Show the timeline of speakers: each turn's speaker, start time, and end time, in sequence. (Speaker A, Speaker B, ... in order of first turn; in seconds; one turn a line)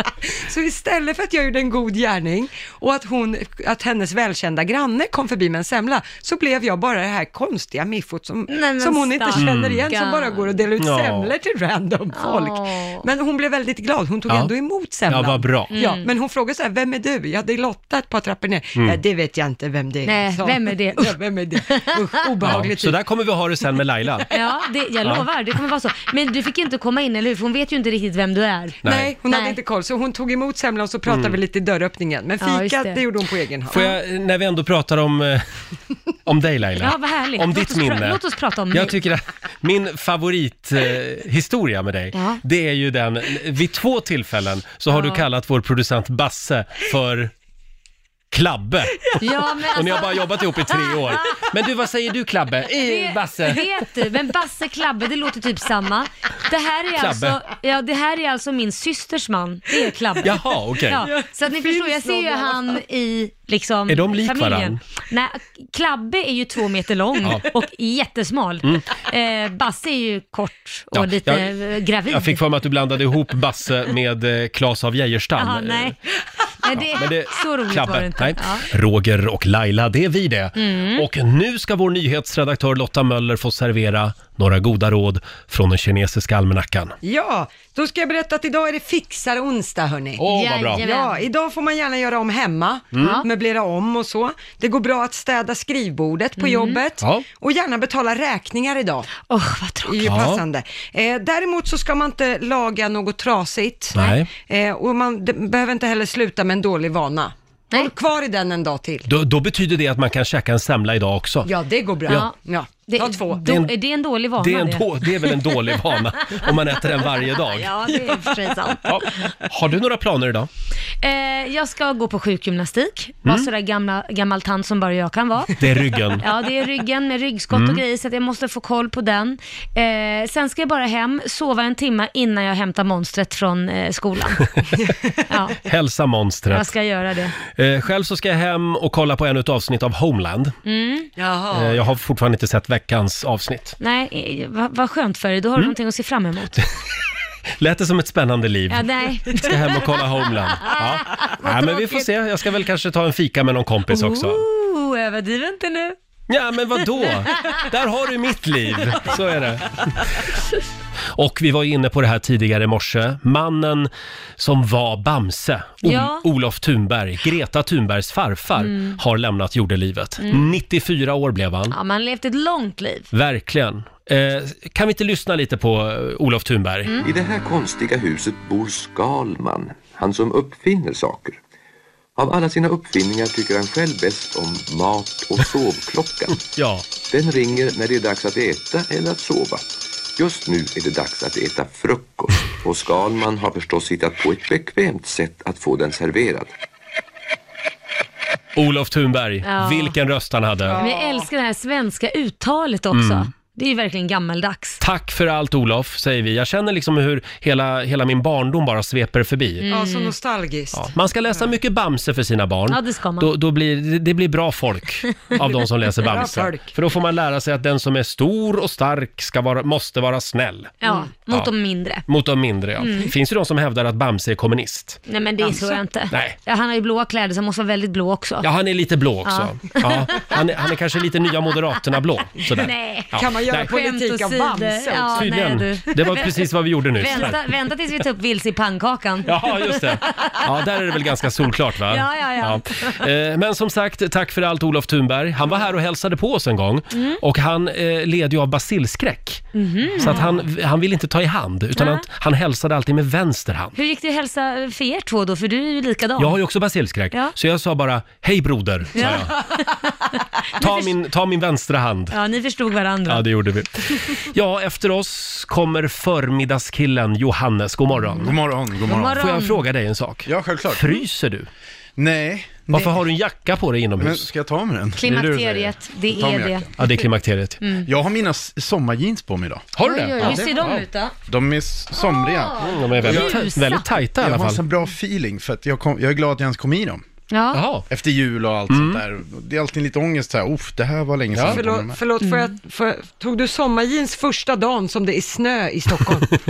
Speaker A: 0.2-23.0
Speaker B: 8.5-10.5
Speaker C: 9.3-9.9
Speaker C: 10.8-11.3
Speaker B: 12.1-13.1
Speaker C: 15.1-15.7
Speaker B: 15.7-16.1
Speaker B: 20.0-22.0
Speaker C: 22.4-24.3
Speaker B: 24.3-29.6
Speaker C: 28.8-29.1
Speaker A: 28.8-33.8
Speaker C: 31.1-31.4
Speaker B: 32.4-33.0
Speaker B: 33.7-34.0
Speaker C: 33.7-35.5
Speaker C: 36.2-38.2
Speaker B: 36.8-39.0
Speaker C: 38.7-47.3
Speaker B: 42.1-42.4
Speaker B: 44.9-45.2
Speaker C: 48.3-53.6
Speaker B: 49.2-51.2
Speaker B: 52.8-72.4
Speaker C: 57.0-57.4
Speaker C: 60.2-61.0
Speaker A: 61.0-62.8
Speaker C: 63.9-64.8
Speaker C: 70.9-71.5
Speaker C: 72.1-76.0
Speaker B: 75.4-76.0
Speaker B: 76.6-78.7
Speaker C: 76.7-87.0
Speaker B: 80.5-81.0
Speaker A: 87.0-90.2
Speaker C: 90.2-90.8
Speaker B: 90.3-91.2
Speaker A: 90.8-99.1
Speaker C: 92.9-93.2
Speaker B: 93.0-93.3
Speaker B: 96.4-96.8
Speaker C: 97.0-97.2
Speaker B: 99.3-100.2
Speaker A: 99.8-109.1
Speaker C: 100.0-100.4
Speaker C: 103.9-104.3
Speaker C: 109.1-111.5
Speaker A: 111.4-113.4
Speaker B: 112.1-112.3
Speaker B: 112.9-115.5
Speaker C: 113.4-113.7
Speaker C: 114.4-117.8
Speaker B: 117.2-118.9
Speaker C: 118.8-120.5
Speaker B: 121.0-125.6
Speaker C: 125.6-126.2
Speaker B: 126.2-134.5
Speaker C: 127.5-127.8
Speaker B: 135.3-135.6
Speaker C: 135.6-136.7
Speaker B: 136.5-137.3
Speaker C: 137.4-140.6
Speaker B: 140.6-141.1
Speaker A: 141.2-141.8
Speaker C: 141.5-143.8
Speaker B: 143.8-146.6
Speaker C: 147.6-154.4
Speaker B: 148.7-149.6
Speaker B: 150.6-151.2
Speaker A: 151.4-151.9
Speaker B: 153.9-155.9
Speaker C: 156.3-160.2
Speaker B: 157.0-157.6
Speaker C: 161.1-171.7
Speaker B: 165.8-166.2
Speaker B: 168.6-169.0
Speaker B: 170.2-170.5
Speaker B: 171.7-173.1
Speaker C: 173.1-177.0
Speaker D: 177.0-181.4
Speaker D: 182.2-186.4
Speaker C: 186.5-186.8
Speaker D: 187.1-196.5
Speaker C: 198.6-200.8
Speaker B: 199.4-199.9
Speaker A: 200.7-201.3
Speaker B: 200.7-204.8
Speaker C: 202.9-203.3
Speaker C: 204.8-209.6
Speaker B: 209.6-210.1
Speaker A: 209.7-211.5
Speaker C: 210.7-220.8
Speaker B: 212.7-213.3
Speaker A: 216.1-216.7
Speaker B: 220.8-222.0
Speaker C: 222.1-225.0
Speaker B: 222.8-223.1
Speaker B: 225.1-228.5
Speaker A: 225.4-225.8
Speaker C: 226.1-226.3
Speaker C: 228.4-233.7
Speaker B: 229.2-230.4
Speaker B: 232.6-240.4
Speaker A: 233.1-235.4
Speaker C: 235.2-237.4
Speaker C: 239.2-253.7
Speaker B: 241.9-243.0
Speaker B: 246.9-247.2
Speaker B: 249.5-250.3
Speaker B: 251.8-252.0
Speaker B: 253.7-256.4
Speaker C: 256.2-259.4
Speaker B: 258.9-259.9
Speaker B: 260.6-260.9
Speaker C: 260.6-262.1
Speaker B: 262.1-263.2
Speaker C: 263.1-268.3
Speaker E: 268.2-269.3
Speaker B: 268.9-269.6
Speaker C: 269.2-271.5
Speaker E: 270.2-271.0
Speaker E: 272.0-273.0
Speaker C: 272.7-274.3
Speaker E: 274.0-276.7
Speaker B: 274.9-276.7
Speaker C: 276.8-277.6
Speaker B: 277.6-277.9
Speaker E: 277.9-279.6
Speaker C: 279.7-280.8
Speaker B: 279.8-281.1
Speaker E: 280.2-280.7
Speaker E: 281.3-283.4
Speaker B: 281.9-283.9
Speaker C: 282.6-284.6
Speaker E: 284.1-287.0
Speaker B: 287.3-287.6
Speaker C: 287.5-287.9
Speaker E: 287.9-292.0
Speaker C: 288.7-289.0
Speaker C: 291.3-291.6
Speaker A: 291.5-296.3
Speaker B: 292.2-292.5